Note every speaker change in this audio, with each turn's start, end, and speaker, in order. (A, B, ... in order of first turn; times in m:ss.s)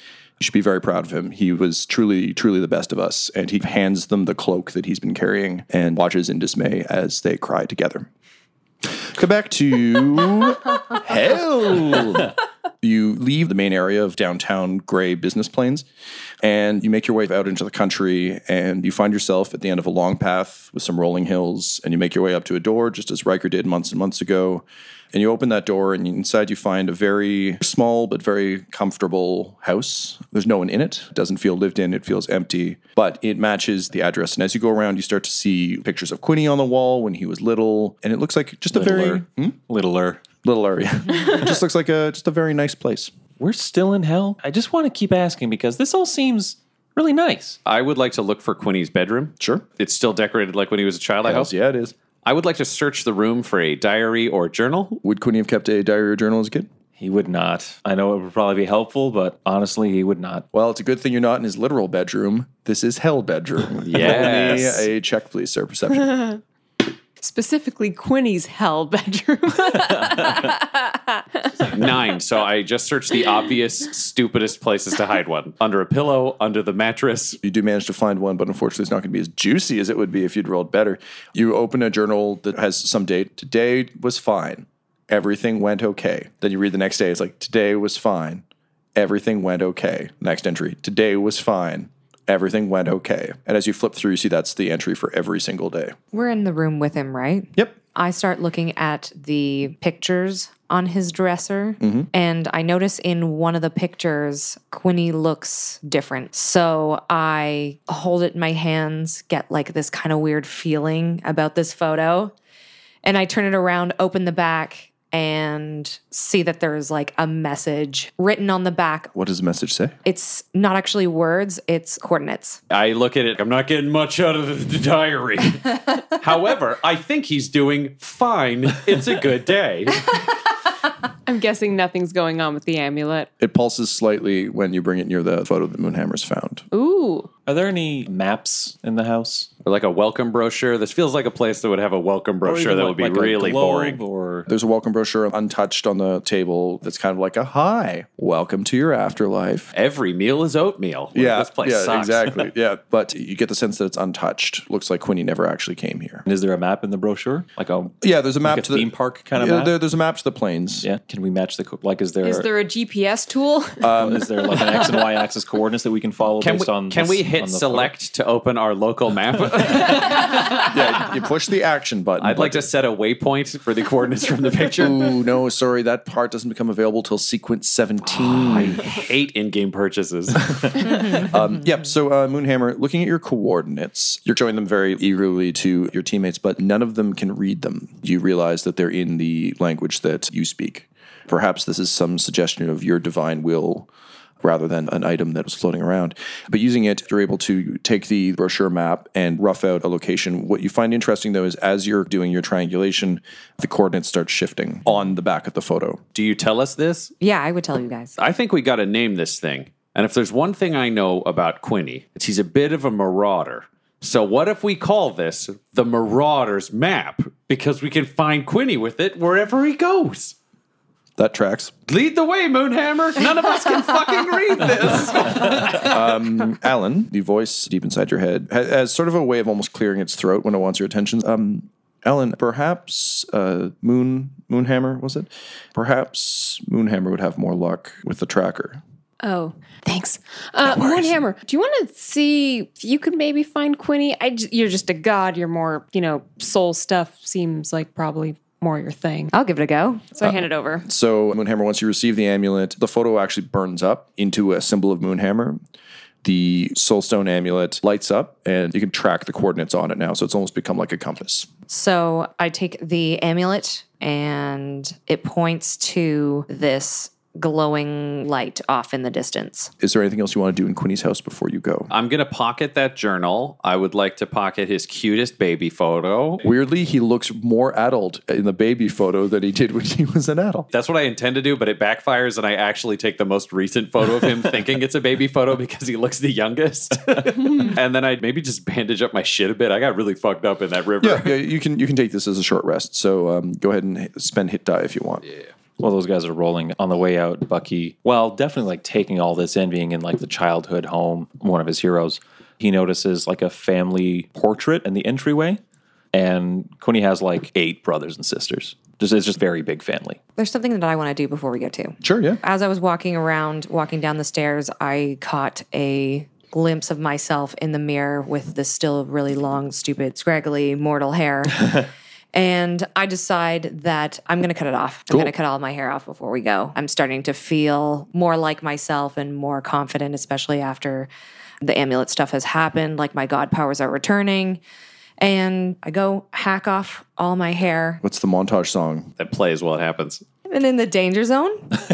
0:00.4-0:08.1 A
0:09.0-0:15.8 A
0:16.4-0:39.6 A
0:38.7-0:40.2 B
0:40.4-0:43.1 A
0:43.4-0:47.6 B
0:47.7-0:51.5 C
0:49.4-0:49.6 A
0:51.2-0:51.9 A
0:52.2-0:55.0 C
0:55.0-0:56.7 A
0:57.0-1:00.4 B
1:00.5-1:06.3 A
1:03.8-1:04.9 C
1:04.0-1:04.3 B
1:07.2-1:11.7 D
1:11.7-1:17.4 C
1:17.4-1:28.4 A
1:29.0-1:36.0 A
1:36.1-1:52.3 E
1:41.8-1:42.1 A
1:53.0-1:59.1 E
1:59.1-2:00.0 A
2:00.0-2:02.6 E
2:02.7-2:10.3 C
2:11.3-2:13.3 D
2:13.4-2:16.6 A
2:16.7-2:17.3 D
2:17.5-2:19.5 B
2:19.6-2:24.0 C
2:22.4-2:24.5 B
2:24.5-2:29.7 A
2:29.7-2:32.4 C
2:31.2-2:36.3 A
2:36.3-2:39.7 B
2:38.0-2:40.9 A
2:40.8-2:42.5 B
2:42.2-2:43.9 D
2:43.8-2:44.2 A
2:44.0-2:47.9 B
2:46.4-2:50.8 C
2:50.6-2:52.7 A
2:52.2-2:55.1 C
2:54.8-2:58.9 A
2:58.2-3:01.2 C
3:01.1-3:13.9 A
3:14.4-3:26.0 A
3:26.1-3:27.1 C
3:27.2-3:28.2 E
3:28.2-3:40.4 C
3:41.2-3:41.7 A
3:41.9-3:46.2 C
3:45.8-3:58.8 A
3:59.2-4:09.3 D
4:00.6-4:01.2 A
4:09.3-4:10.1 E
4:10.2-4:10.9 D
4:10.2-4:15.6 A
4:16.2-4:21.5 A
4:21.7-4:29.7 E
4:29.8-4:31.9 A
4:31.9-4:36.4 C
4:36.4-4:40.7 A
4:40.7-4:51.3 C
4:51.0-4:55.2 A
4:55.8-5:05.6 B
5:06.1-5:10.2 B
5:10.4-5:21.8 E
5:12.0-5:12.4 A
5:22.3-5:31.1 E
5:31.6-5:34.6 E
5:35.2-5:38.0 E
5:38.0-5:39.1 A
5:39.2-5:40.2 C
5:40.5-5:41.7 E